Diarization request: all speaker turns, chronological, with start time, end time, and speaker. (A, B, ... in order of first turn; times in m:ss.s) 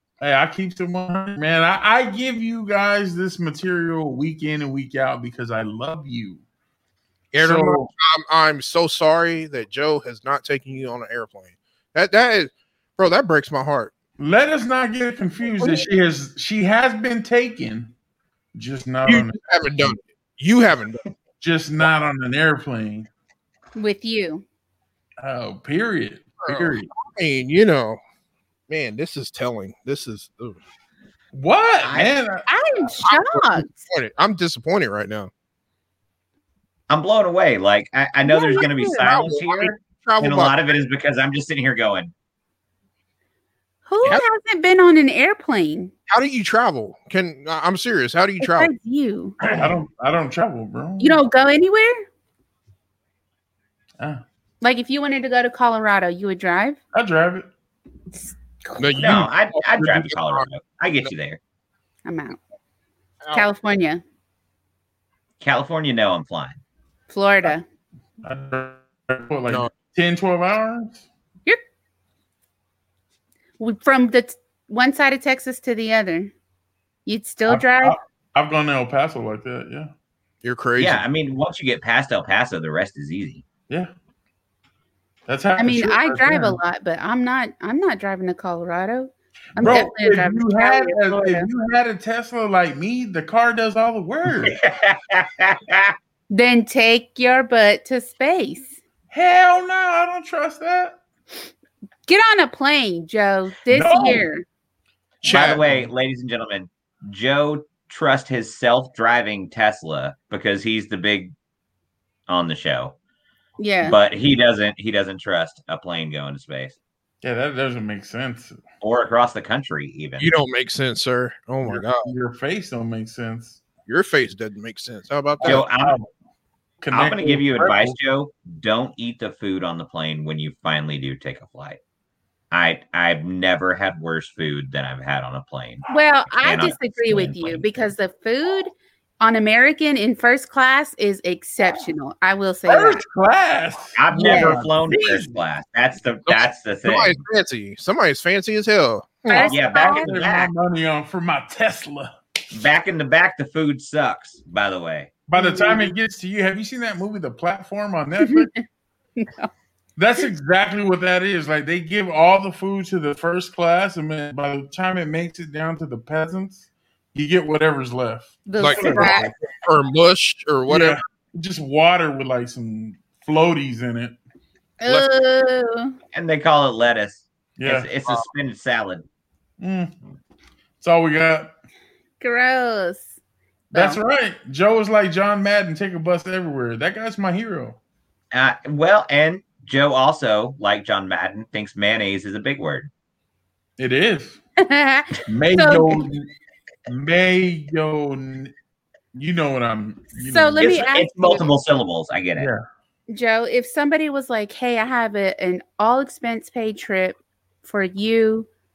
0:00.2-0:06.4 A
0:07.3-0:13.9 B
0:07.4-0:07.9 A
0:14.2-0:17.9 A
0:18.5-0:19.4 A
0:19.0-0:21.1 B
0:21.4-0:23.1 A
0:23.8-0:24.4 C
0:25.2-0:26.9 A
0:26.4-0:28.0 B
0:28.7-0:30.6 B
0:31.3-0:32.5 A
0:31.8-0:32.1 D
0:32.5-0:33.8 C
0:33.0-0:35.3 B
0:36.9-0:42.1 D
0:38.3-0:39.1 C
0:39.0-0:40.6 B
0:43.8-0:45.9 C
0:46.1-0:48.7 B
0:48.4-0:49.4 C
0:49.4-0:49.7 D
0:49.5-0:51.2 A
0:51.0-0:52.0 C
0:54.6-0:56.8 C
0:56.9-0:57.4 A
0:58.2-0:58.8 C
0:58.8-1:00.5 B
0:59.0-1:01.4 D
1:02.0-1:02.4 C
1:03.2-1:03.5 B
1:03.3-1:04.0 C
1:05.4-1:06.6 D
1:07.1-1:07.6 C
1:08.2-1:11.0 A
1:13.6-1:16.3 C
1:17.0-1:18.0 C
1:17.5-1:19.9 A
1:20.4-1:21.0 B
1:20.8-1:23.4 D
1:25.3-1:26.6 A
1:25.6-1:31.5 C
1:29.5-1:34.6 A
1:29.6-1:29.8 B
1:34.4-1:36.0 D
1:36.3-1:38.8 C
1:39.1-1:41.0 A
1:42.1-1:44.4 C
1:43.7-1:44.2 A
1:45.2-1:51.3 D
1:45.2-1:45.6 B
1:45.3-1:45.9 A
1:52.3-1:53.0 D
1:53.6-1:54.0 C
1:53.8-1:56.8 D
1:57.2-1:58.6 A
1:58.8-2:00.3 D
2:00.2-2:02.1 B
2:01.6-2:03.6 A
2:03.9-2:05.6 B
2:05.4-2:06.1 A
2:05.4-2:06.0 D
2:06.8-2:08.0 A
2:06.9-2:11.8 D
2:12.5-2:17.7 D
2:15.9-2:23.0 C
2:22.7-2:25.4 A
2:24.0-2:27.2 D
2:24.1-2:24.6 C
2:26.3-2:29.5 B
2:29.3-2:30.2 C
2:29.4-2:30.5 D
2:29.6-2:32.1 A
2:32.5-2:35.1 D
2:35.3-2:38.5 A
2:35.3-2:35.9 C
2:38.3-2:38.6 C
2:39.2-2:39.5 C
2:40.0-2:49.3 A
2:48.5-2:49.3 C
2:48.6-2:51.0 B
2:50.7-2:54.2 A
2:54.8-2:55.9 C
2:56.1-2:59.0 D
2:57.6-2:57.9 A
2:59.6-2:59.9 A
3:00.8-3:01.5 A
3:02.2-3:03.1 C
3:03.7-3:07.8 A
3:03.7-3:04.0 C
3:08.3-3:12.9 D
3:13.8-3:14.4 A
3:14.6-3:16.0 C
3:15.2-3:16.3 A
3:16.9-3:18.5 A
3:19.1-3:20.6 A
3:20.1-3:21.5 C
3:20.6-3:22.5 D
3:23.1-3:28.5 C